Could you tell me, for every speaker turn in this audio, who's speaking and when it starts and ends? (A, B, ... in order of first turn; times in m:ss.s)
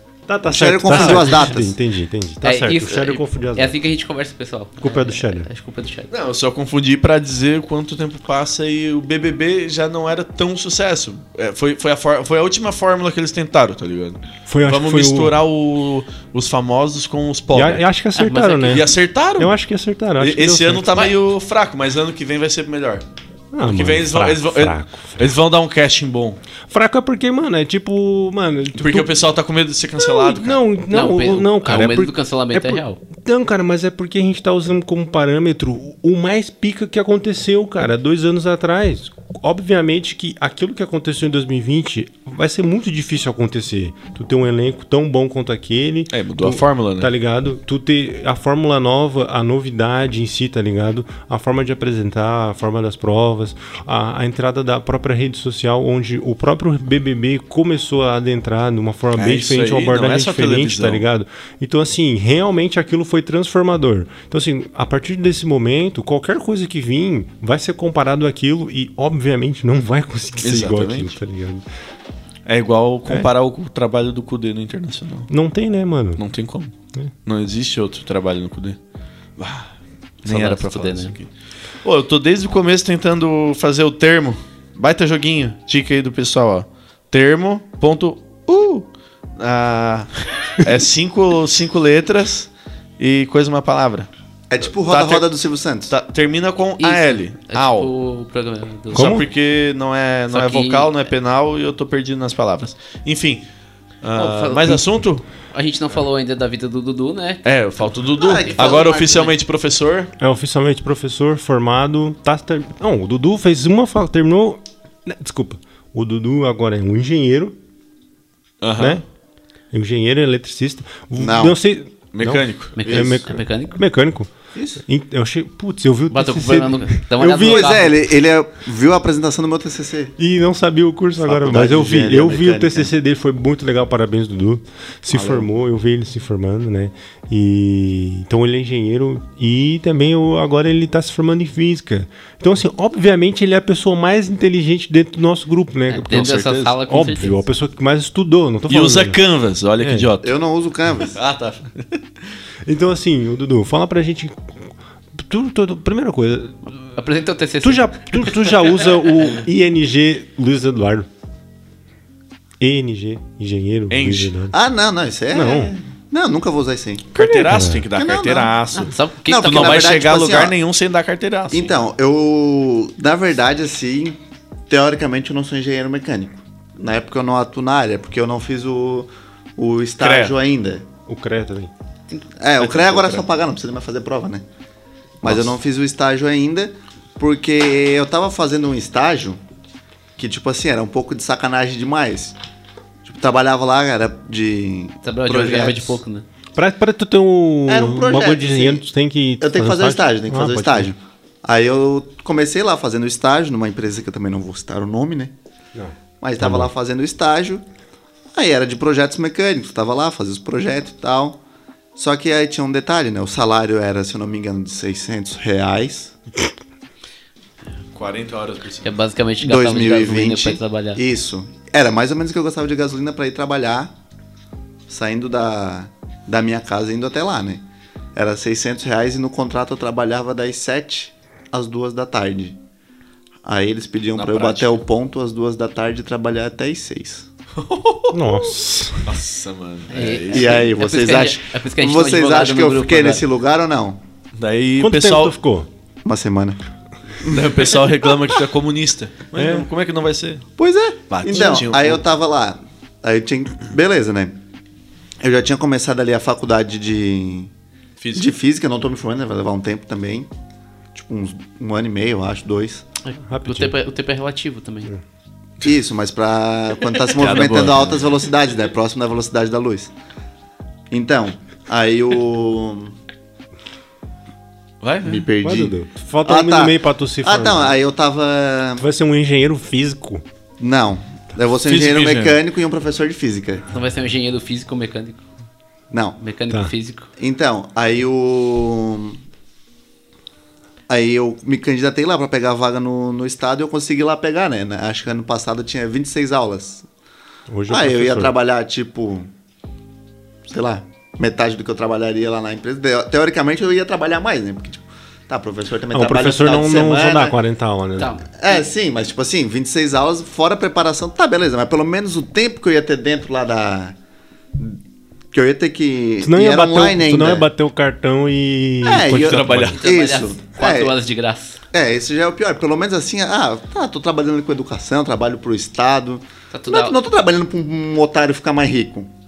0:00.3-0:03.8 A
0:00.5-0:01.8 B
0:02.4-0:06.1 C
0:04.8-0:05.5 A
0:06.1-0:17.8 D
0:14.5-0:15.4 A
0:17.5-0:21.1 A
0:18.2-0:18.9 C
0:18.7-0:19.6 D
0:20.2-0:23.0 D
0:23.5-0:25.3 A
0:23.6-0:26.4 D
0:26.7-0:29.1 A
0:28.7-0:30.6 D
0:30.0-1:11.6 A
0:30.9-0:33.0 C
0:46.1-0:47.1 D
0:59.2-1:01.0 D
1:10.4-1:11.1 D
1:12.5-1:15.3 D
1:15.3-1:16.2 A
1:16.2-1:16.7 D
1:17.3-1:18.8 D
1:19.4-1:19.7 D
1:20.2-1:21.2 C
1:20.2-1:21.3 D
1:21.8-1:28.9 D
1:29.4-1:34.1 D
1:34.5-1:35.9 B
1:34.7-1:35.3 D
1:35.9-1:37.9 D
1:36.8-1:39.3 C
1:38.9-1:39.3 A
1:38.9-1:43.4 D
1:40.3-1:40.9 C
1:44.0-1:45.2 D
1:44.2-1:44.8 C
1:45.5-1:47.4 C
1:47.4-1:50.1 D
1:48.2-1:49.4 B
1:48.4-1:48.9 C
1:50.2-1:57.6 A
1:58.6-1:59.0 D
1:58.8-1:59.0 A
1:59.7-2:07.8 A
2:01.2-2:01.6 B
2:02.1-2:02.8 D
2:02.8-2:03.8 C
2:02.9-2:03.2 B
2:04.6-2:04.8 B
2:06.1-2:07.9 C
2:07.3-2:10.2 B
2:10.2-2:29.2 A
2:11.2-2:12.9 B
2:15.1-2:15.5 B
2:25.9-2:27.4 C
2:26.1-2:26.8 D
2:28.7-2:30.3 D
2:29.8-2:30.1 A
2:30.2-2:31.2 B
2:31.0-2:32.0 D
2:32.6-2:36.6 A
2:36.7-2:38.9 C
2:37.6-2:41.1 A
2:42.6-2:44.6 A
2:43.9-2:44.3 D
2:44.5-2:47.1 B
2:45.3-2:45.7 A
2:47.1-2:51.8 D
2:47.2-2:47.9 A
2:48.0-2:50.6 B
2:48.8-2:50.0 C
2:51.5-2:54.2 B
2:54.7-3:00.9 B
3:00.0-3:00.4 D
3:01.1-3:01.7 A
3:02.1-3:03.2 C
3:02.4-3:04.4 B
3:05.2-3:09.4 B
3:05.2-3:05.5 D
3:10.2-3:12.4 B
3:13.0-3:16.0 B
3:15.0-3:16.2 C
3:16.6-3:20.9 A
3:17.7-3:18.8 B
3:19.4-3:25.3 B
3:25.8-3:26.7 A
3:26.2-3:27.6 B
3:28.3-3:31.4 B
3:32.0-3:36.2 B
3:37.9-3:38.9 D
3:38.8-3:41.0 C
3:39.4-3:43.9 B
3:44.9-3:47.6 B
3:48.2-3:52.6 B
3:53.4-3:57.3 B
3:54.2-3:54.8 D
3:57.6-3:58.2 D
3:58.1-3:59.1 A
3:59.0-4:00.7 D
3:59.9-4:03.2 C
4:00.3-4:04.0 B
4:04.4-4:05.4 D
4:04.8-4:05.7 A
4:06.0-4:06.6 B
4:07.2-4:07.8 B
4:07.3-4:10.4 D
4:09.4-4:09.7 A
4:10.6-4:14.4 B
4:11.1-4:12.0 D
4:15.2-4:17.5 B
4:18.0-4:18.3 D
4:18.2-4:20.3 B
4:20.9-4:22.8 B
4:23.0-4:24.9 C
4:23.3-4:23.7 A
4:25.6-4:29.9 B
4:27.1-4:28.1 D
4:30.9-4:33.0 B
4:34.8-4:35.3 D
4:35.0-4:35.7 B
4:35.4-4:37.8 A
4:36.2-4:38.9 B
4:38.8-4:40.2 A
4:40.6-4:43.6 B
4:41.6-4:42.4 D
4:43.7-4:45.3 C
4:45.9-4:46.2 B
4:46.2-4:47.1 C
4:47.2-4:49.2 B
4:50.9-4:56.9 B
4:57.5-4:58.3 A
4:57.7-4:59.3 B
5:00.5-5:07.4 B
5:05.9-5:08.1 A
5:08.0-5:08.6 C
5:08.4-5:14.0 B
5:15.3-5:17.5 B
5:16.2-5:19.8 A
5:18.8-5:20.9 B
5:19.0-5:19.8 D
5:19.8-5:21.6 C
5:21.7-5:29.1 B
5:26.5-5:27.0 C